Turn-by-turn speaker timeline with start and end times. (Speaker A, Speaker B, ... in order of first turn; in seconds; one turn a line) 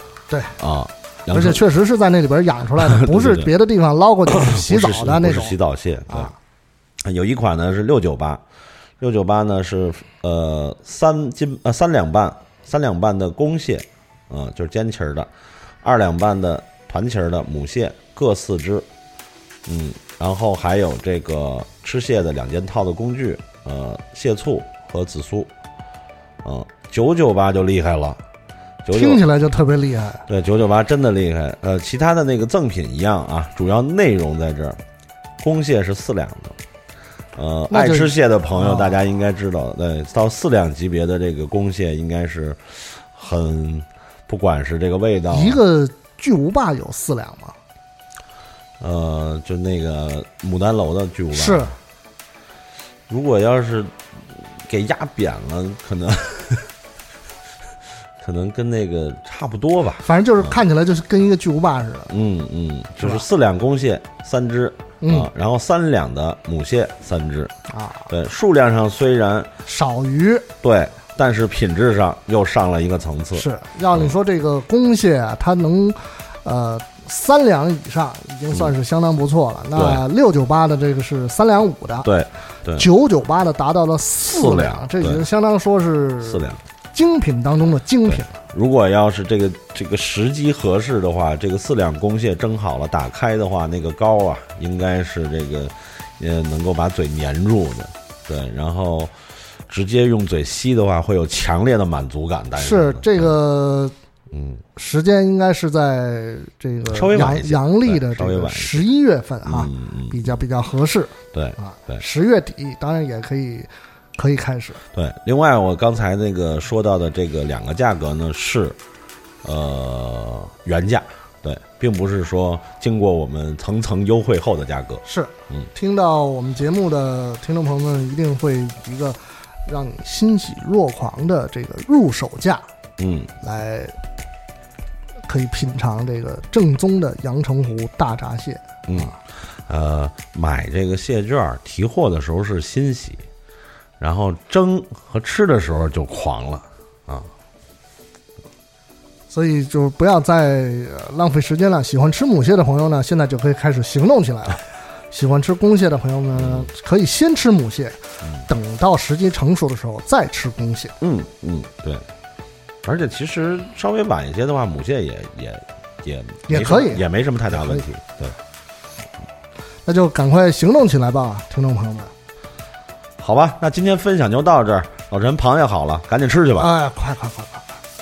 Speaker A: 0.3-0.6
Speaker B: 0.6-1.6
Speaker A: 1.3-5.6
Speaker B: 2.8-3.5
Speaker B: 4.3-6.3
Speaker A: 6.1-6.4
Speaker B: 7.0-8.4
Speaker B: 9.0-15.3
Speaker B: 15.8-18.9
Speaker B: 19.7-25.5
Speaker B: 26.4-28.2
Speaker B: 28.8-29.2
Speaker A: 28.9-30.3
Speaker B: 30.3-34.8
Speaker B: 35.4-36.6
Speaker B: 37.4-45.6
Speaker A: 37.7-38.9
Speaker A: 45.3-47.6
Speaker B: 48.8-51.7
Speaker A: 51.3-51.8
Speaker B: 53.1-56.7
Speaker B: 58.2-60.6
Speaker A: 60.0-62.1
Speaker B: 62.1-67.5
Speaker A: 65.0-65.3
Speaker A: 67.7-68.1
Speaker B: 68.1-69.5
Speaker A: 69.7-70.5
Speaker B: 70.6-74.1
Speaker A: 73.3-82.1
Speaker B: 79.8-80.0
Speaker B: 82.0-82.9
Speaker A: 82.7-88.3
Speaker B: 84.2-85.3
Speaker B: 86.2-86.6
Speaker B: 88.1-99.1
Speaker B: 99.7-103.3
Speaker A: 102.6-104.0
Speaker B: 104.3-104.6
Speaker A: 104.8-114.8
Speaker B: 106.9-108.9
Speaker B: 109.4-110.4
Speaker B: 111.3-112.0
Speaker B: 114.9-118.8
Speaker B: 119.4-125.7
Speaker A: 125.0-132.7
Speaker B: 133.0-133.3
Speaker A: 133.4-133.9
Speaker A: 135.3-139.1
Speaker B: 138.9-143.2
Speaker B: 144.0-147.3
Speaker A: 149.3-160.9
Speaker B: 156.3-156.7
Speaker B: 161.0-162.1
Speaker B: 162.8-168.4
Speaker A: 166.5-167.0
Speaker A: 167.6-167.8
Speaker A: 169.9-172.1
Speaker B: 173.2-176.7
Speaker A: 176.6-177.7